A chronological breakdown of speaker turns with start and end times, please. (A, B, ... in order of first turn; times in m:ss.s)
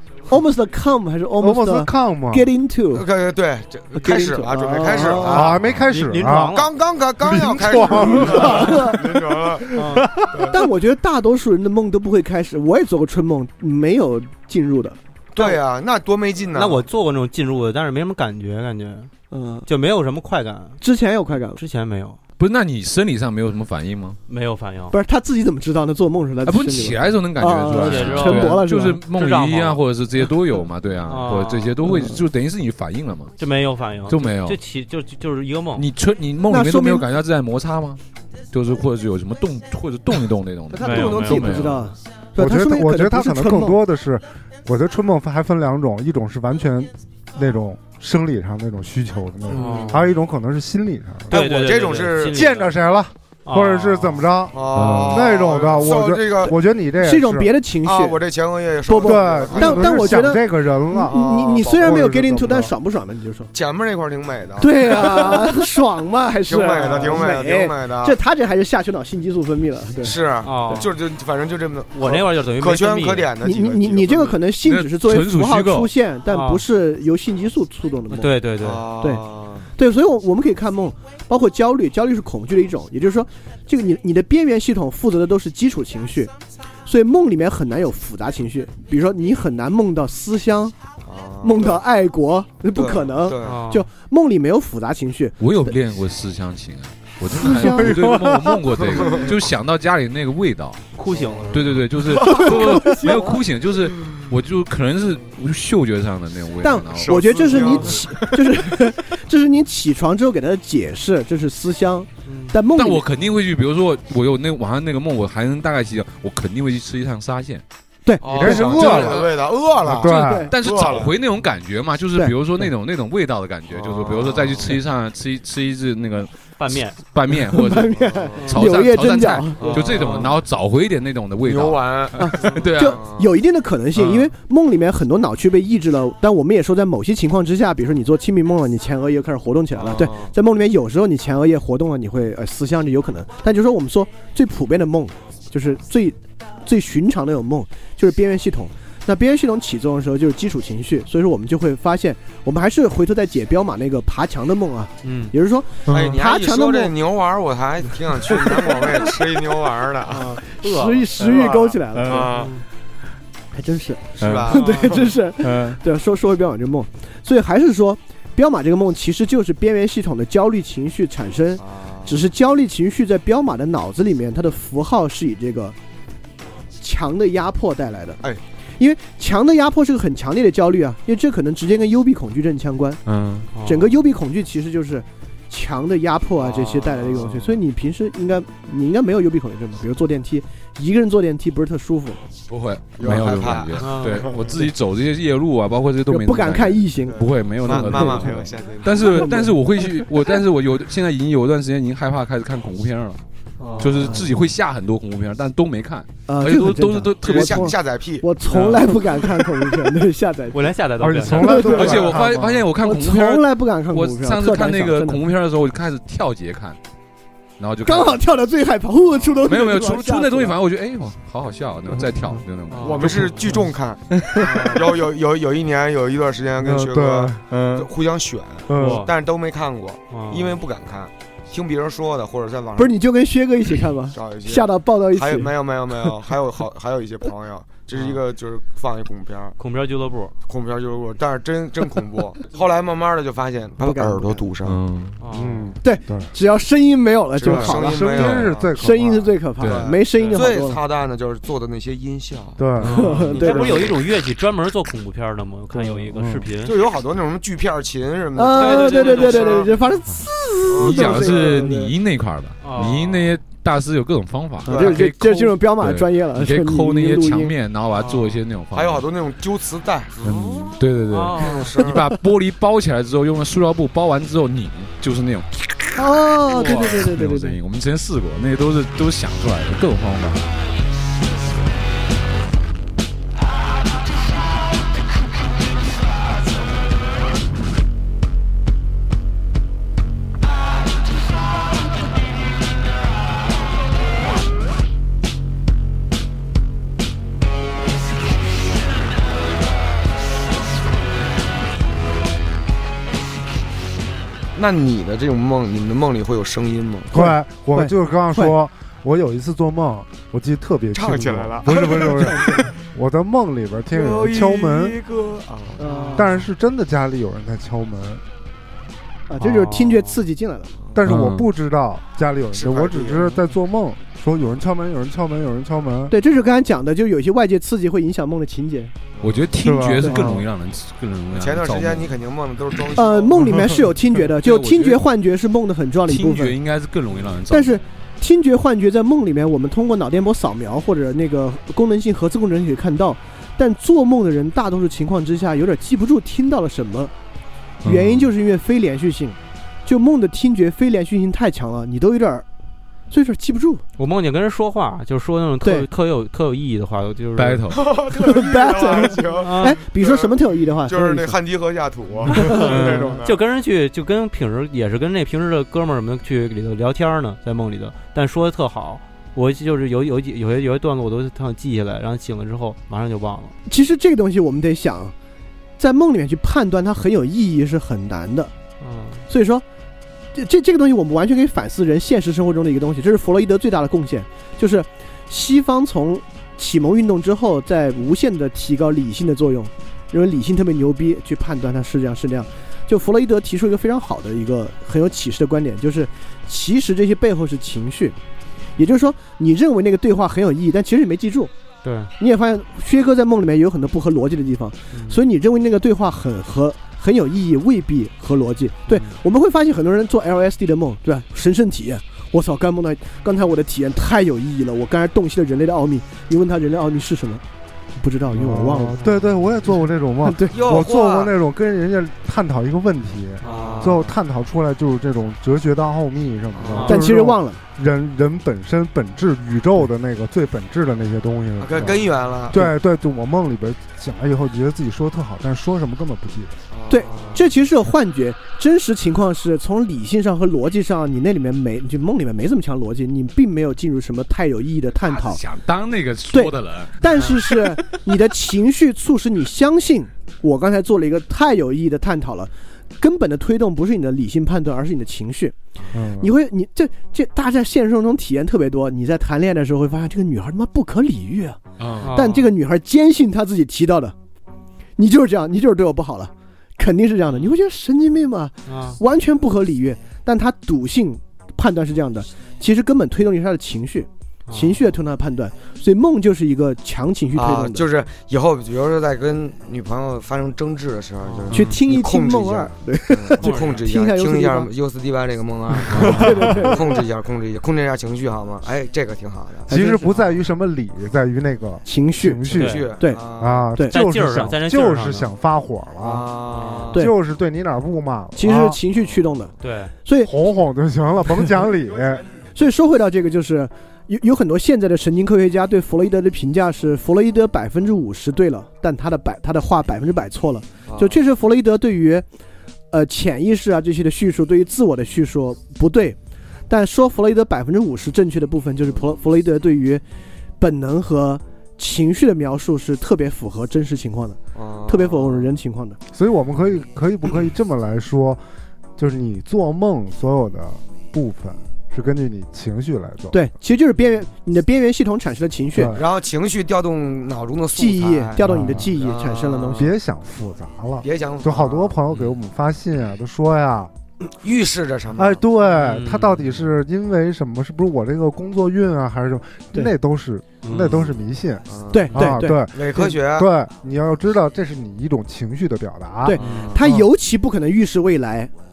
0:00.3-0:03.0 A
0:01.4-0:02.4 B
0:02.9-0:05.6 C
0:03.9-0:05.5 A
0:05.2-0:06.6 B
0:05.6-0:05.9 D
0:05.9-0:06.7 E
0:06.5-0:09.7 C
0:07.2-0:10.4 B
0:07.9-0:09.1 A
0:09.7-0:10.0 E
0:10.5-0:15.6 A
0:15.3-0:16.8 C
0:16.5-0:19.1 E
0:19.3-0:19.7 A
0:19.6-0:20.8 E
0:20.8-0:21.6 A
0:21.6-0:22.2 E
0:22.4-0:24.2 D
0:24.3-0:24.9 E
0:24.9-0:29.0 A
0:26.4-0:33.3 D
0:27.7-0:29.8 E
0:31.0-0:32.0 E
0:33.4-0:35.8 E
0:34.1-0:34.6 D
0:35.7-0:38.0 D
0:36.5-0:37.0 A
0:38.5-0:41.9 D
0:40.7-0:43.8 A
0:40.8-0:41.6 E
0:42.4-0:51.4 B
0:49.5-0:50.0 C
0:49.5-0:50.1 E
0:51.3-0:52.8 E
0:51.3-0:52.5 C
0:52.2-0:57.5 B
0:53.4-0:54.2 E
0:54.5-0:56.5 C
0:54.7-0:55.2 D
0:57.0-0:58.2 A
0:57.8-1:00.2 C
0:58.9-1:03.5 A
0:59.0-1:02.7 B
1:01.0-1:02.1 C
1:03.5-1:05.5 C
1:04.6-1:10.2 A
1:06.5-1:08.2 C
1:06.7-1:07.3 E
1:10.0-1:14.4 C
1:10.4-1:11.0 E
1:11.9-1:13.3 E
1:13.4-1:18.3 A
1:14.6-1:15.9 D
1:16.3-1:16.6 E
1:18.1-1:18.8 E
1:18.6-1:19.7 C
1:19.8-1:26.3 A
1:26.8-1:30.7 A
1:31.0-1:31.8 C
1:31.4-1:35.7 A
1:32.7-1:33.6 C
1:33.4-1:33.8 E
1:35.4-1:40.8 D
1:37.3-1:37.9 A
1:37.6-1:38.6 B
1:38.9-1:39.3 C
1:40.9-1:42.3 E
1:41.1-1:43.2 C
1:41.5-1:47.9 D
1:42.2-1:43.2 A
1:46.6-1:53.0 A
1:47.0-1:48.3 C
1:47.6-1:47.9 E
1:52.2-1:52.6 E
1:52.7-1:57.6 D
1:58.0-1:58.9 A
1:58.2-2:01.2 C
1:58.4-1:59.3 B
1:58.4-1:59.3 D
1:59.8-2:00.5 B
2:00.0-2:00.5 A
2:00.3-2:13.0 D
2:03.7-2:04.8 C
2:06.6-2:07.0 E
2:07.4-2:09.7 A
2:07.9-2:08.6 C
2:09.6-2:10.4 C
2:09.6-2:10.3 E
2:11.4-2:13.3 C
2:12.2-2:36.9 A
2:19.8-2:20.3 C
2:35.0-2:35.3 E
2:35.9-2:36.2 D
2:35.9-2:40.4 C
2:38.3-2:38.8 A
2:40.1-2:41.1 E
2:40.5-2:42.3 A
2:41.2-2:42.5 C
2:41.9-2:42.3 D
2:42.3-2:42.6 E
2:43.5-2:55.7 A
2:44.2-2:45.0 C
2:44.2-2:44.5 D
2:44.5-2:45.0 E
2:45.4-2:45.8 D
2:51.6-2:52.3 C
2:56.8-2:58.2 A
2:58.8-3:03.0 A
3:03.0-3:03.5 D
3:03.5-3:04.0 E
3:03.6-3:12.2 A
3:06.4-3:07.5 C
3:12.5-3:23.2 D
3:13.0-3:14.6 C
3:13.8-3:14.3 E
3:16.1-3:18.3 A
3:17.1-3:19.4 C
3:18.9-3:19.6 A
3:23.6-3:24.0 E
3:23.8-3:27.7 D
3:24.0-3:24.2 A
3:26.3-3:30.7 A
3:27.2-3:28.2 C
3:28.5-3:29.0 D
3:28.5-3:28.8 E
3:30.5-3:31.9 E
3:31.0-3:32.7 B
3:31.3-3:32.0 A
3:31.5-3:36.8 D
3:32.8-3:35.2 A
3:37.6-3:38.2 D
3:37.8-3:40.6 A
3:39.4-3:43.6 D
3:42.7-3:43.3 E
3:42.8-3:52.9 C
3:44.1-3:44.5 D
3:44.4-3:44.8 E
3:46.6-3:47.5 B
3:47.5-3:47.9 D
3:48.7-3:49.1 B
3:48.7-3:49.1 E
3:50.1-3:50.6 E
3:52.8-3:56.0 A
3:54.1-3:59.6 C
3:57.9-3:58.2 E
3:59.6-4:00.3 E
4:00.4-4:04.8 C
4:03.8-4:04.5 A
4:04.6-4:05.2 D
4:05.2-4:05.8 E
4:05.3-4:06.3 B
4:05.8-4:10.8 A
4:07.4-4:08.7 C
4:07.4-4:09.3 B
4:09.6-4:09.9 D
4:09.6-4:12.7 C
4:10.2-4:10.4 E
4:12.6-4:13.8 B
4:12.8-4:13.2 D
4:12.9-4:13.7 A
4:13.0-4:16.8 E
4:13.2-4:14.1 C
4:15.7-4:16.5 B
4:16.6-4:19.7 C
4:18.3-4:21.9 A
4:18.6-4:19.7 E
4:20.7-4:21.8 C
4:20.8-4:29.0 D
4:22.6-4:23.4 E
4:24.6-4:25.0 C
4:24.6-4:27.5 A
4:27.9-4:28.4 E
4:28.7-4:30.7 C
4:30.2-4:40.5 D
4:30.6-4:31.7 E
4:31.4-4:32.1 C
4:36.0-4:37.6 A
5:04.5-5:07.2 C
5:07.1-5:15.0 B
5:07.1-5:08.5 A
5:10.9-5:12.7 C
5:13.9-5:15.9 C
5:15.8-5:16.3 A
5:15.8-5:16.4 E
5:16.1-5:18.2 B
5:19.3-5:20.7 A
5:19.4-5:20.2 E
5:20.8-5:21.1 C
5:20.9-5:26.1 B
5:21.0-5:21.5 D
5:22.5-5:23.3 C
5:26.1-5:28.9 A
5:29.2-5:29.6 C
5:29.2-5:32.1 D
5:29.6-5:30.4 B
5:30.0-5:30.4 A
5:31.3-5:33.6 C
5:33.0-5:36.5 A
5:34.2-5:35.0 D
5:36.1-5:37.8 D
5:37.5-5:47.1 A
5:47.8-5:48.3 D
5:47.8-5:52.4 A
5:53.1-5:53.8 A
5:54.0-5:57.7 E
5:55.6-5:55.9 A
5:57.4-5:57.8 D
5:57.7-6:03.4 C
5:58.1-6:01.4 A
5:59.3-5:59.8 E
6:02.3-6:03.0 A
6:02.4-6:13.5 E
6:13.6-6:15.1 A
6:15.8-6:18.5 A
6:18.8-6:19.2 E
6:19.3-6:19.6 A
6:20.3-6:38.2 A
6:38.8-6:41.5 A
6:41.8-6:42.1 E
6:42.2-6:57.4 A
6:48.9-6:49.2 E
6:58.0-6:59.0 A
6:58.3-7:16.5 B
6:58.9-6:59.3 E
7:00.2-7:00.6 A
7:00.5-7:01.3 C
7:03.4-7:04.1 E
7:03.4-7:04.1 C
7:06.5-7:07.0 C
7:06.7-7:07.0 E
7:06.8-7:07.6 A
7:11.6-7:12.7 C
7:16.7-7:17.5 C
7:16.9-7:25.4 A
7:25.0-7:27.8 D
7:26.3-7:35.5 A
7:35.9-7:36.3 B
7:36.2-7:44.1 A
7:41.8-7:42.1 D
7:42.0-7:42.5 E
7:45.0-7:57.8 A
7:48.7-7:49.0 E
7:54.5-7:54.9 E
7:57.4-8:09.7 C
8:01.2-8:01.6 E
8:01.5-8:04.7 A
8:01.5-8:01.8 D
8:03.4-8:03.8 E
8:05.9-8:06.5 D
8:05.9-8:06.8 A
8:09.7-8:10.1 A
8:09.7-8:16.2 B
8:10.0-8:10.3 E
8:11.8-8:13.2 A
8:12.5-8:12.9 E
8:12.5-8:13.7 C
8:13.9-8:15.3 E
8:16.0-8:17.0 C
8:16.6-8:16.8 E
8:16.9-8:18.8 B
8:18.4-8:19.5 A
8:19.6-8:19.9 E
8:20.0-8:20.3 A
8:20.2-8:22.2 B
8:22.5-8:32.2 A
8:30.9-8:31.2 C
8:32.9-8:36.2 A
8:36.7-8:40.0 A
8:40.6-8:46.0 A
8:44.5-8:45.5 C
8:46.1-8:48.4 B
8:49.0-8:53.4 B
8:53.3-8:55.9 A
8:55.7-8:56.0 B
8:55.9-8:59.9 C
8:57.8-8:59.9 A
8:58.4-8:58.9 B
8:59.7-9:03.9 B
9:01.0-9:02.0 C
9:04.4-9:05.4 C
9:05.1-9:16.4 B
9:05.7-9:06.4 E
9:10.6-9:11.2 D
9:11.7-9:13.5 C
9:11.9-9:13.1 A
9:16.2-9:18.5 A
9:16.4-9:16.8 C
9:16.4-9:16.7 E